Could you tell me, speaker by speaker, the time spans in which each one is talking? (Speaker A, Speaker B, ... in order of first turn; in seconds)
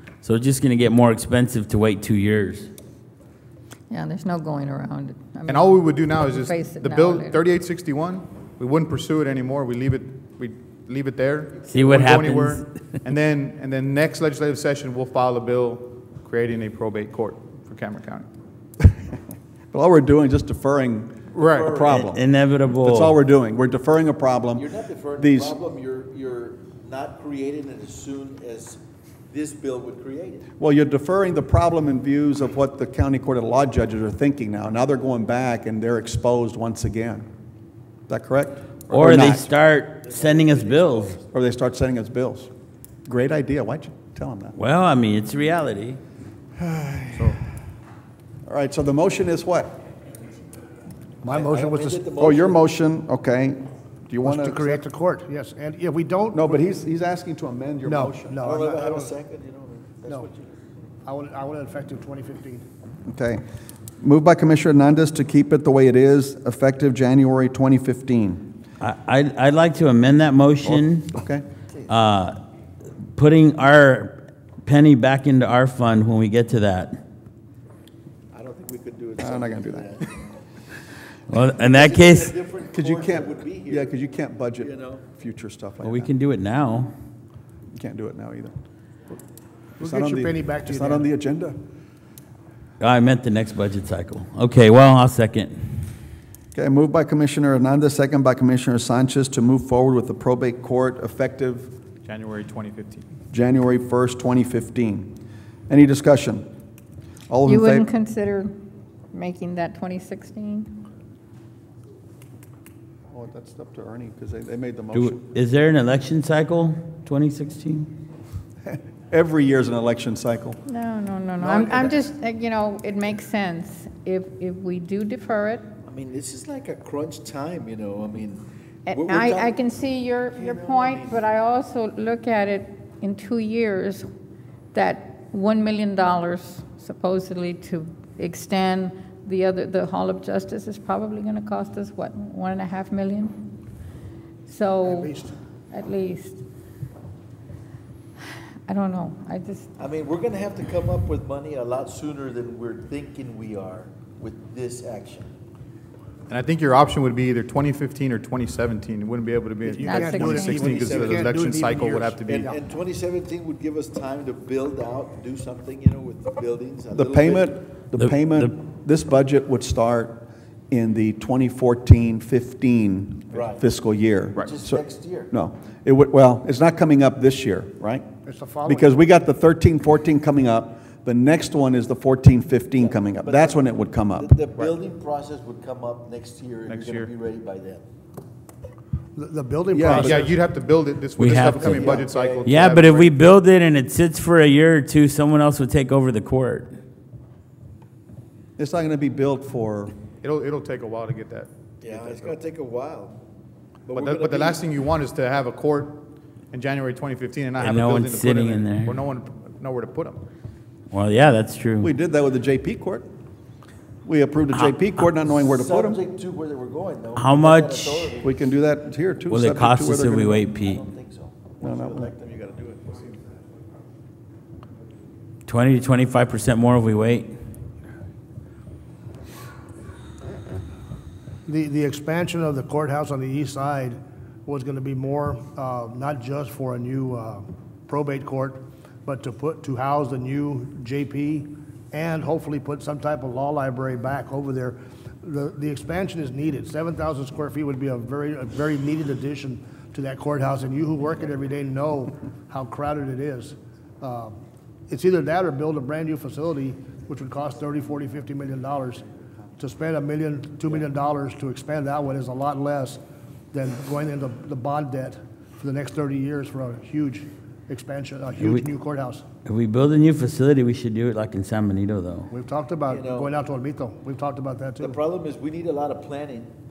Speaker A: 0.2-2.7, 11.7-12.7, 21.9-23.2, 38.9-41.2, 44.6-46.0, 68.8-71.1, 71.9-72.4, 73.1-77.0, 81.3-82.3, 85.8-86.9, 92.8-95.9, 114.9-117.9, 168.0-168.5, 191.2-196.7, 207.6-209.0, 210.9-211.9, 217.2-218.1, 219.3-220.8, 225.5-227.3, 268.4-268.7, 269.5-272.3
Speaker B: 3.9-7.4, 107.5-108.5, 109.1-110.7, 120.7-125.7, 128.9-134.1, 134.7-143.4, 144.5-145.1, 145.7-146.4, 148.7-149.8, 159.8-161.3
Speaker C: 5.5-18.3, 21.3-21.8, 102.0-103.0, 156.3-162.5, 186.7-187.1, 189.8-193.2, 200.2-202.4, 203.9-210.2
Speaker D: 19.7-24.7, 25.2-25.6, 30.6-37.3, 38.1-39.5, 41.3-42.5, 43.1-44.6, 46.6-47.4, 48.5-49.7, 52.1-54.8, 56.3-58.4, 63.1-63.4, 64.0-68.5, 70.6-71.5, 79.2-80.0, 82.7-86.1, 87.7-88.6, 89.8-91.6, 96.5-101.7, 103.3-105.1, 105.7-106.5, 107.3-107.9, 113.1-115.2, 118.7-120.6, 121.4-122.0, 166.9-178.1, 178.7-184.3, 189.7-190.3, 198.6-199.9, 211.8-213.1, 214.1-216.0, 218.2-220.5, 221.6-222.1
Speaker E: 21.4-22.1, 24.6-30.5, 40.0-41.3, 51.3-52.6, 58.4-60.5, 78.3-80.2, 81.5-84.0, 84.5-85.0, 125.8-129.6, 130.3-131.2, 149.8-155.3, 160.6-161.1, 162.2-167.6, 173.3-173.6, 174.4-175.3, 182.8-187.8, 191.6-192.8, 201.8-203.2, 203.9-204.6, 215.3-218.4, 220.6-223.0, 272.9-273.3, 274.8-276.5
Speaker F: 51.2-52.1, 54.2-56.6, 57.9-59.1, 61.0-62.6, 89.8-91.1, 144.8-145.3, 159.7-162.6, 178.2-179.0, 189.2-190.4, 231.5-254.4, 254.9-259.1, 259.6-269.2, 272.3-275.0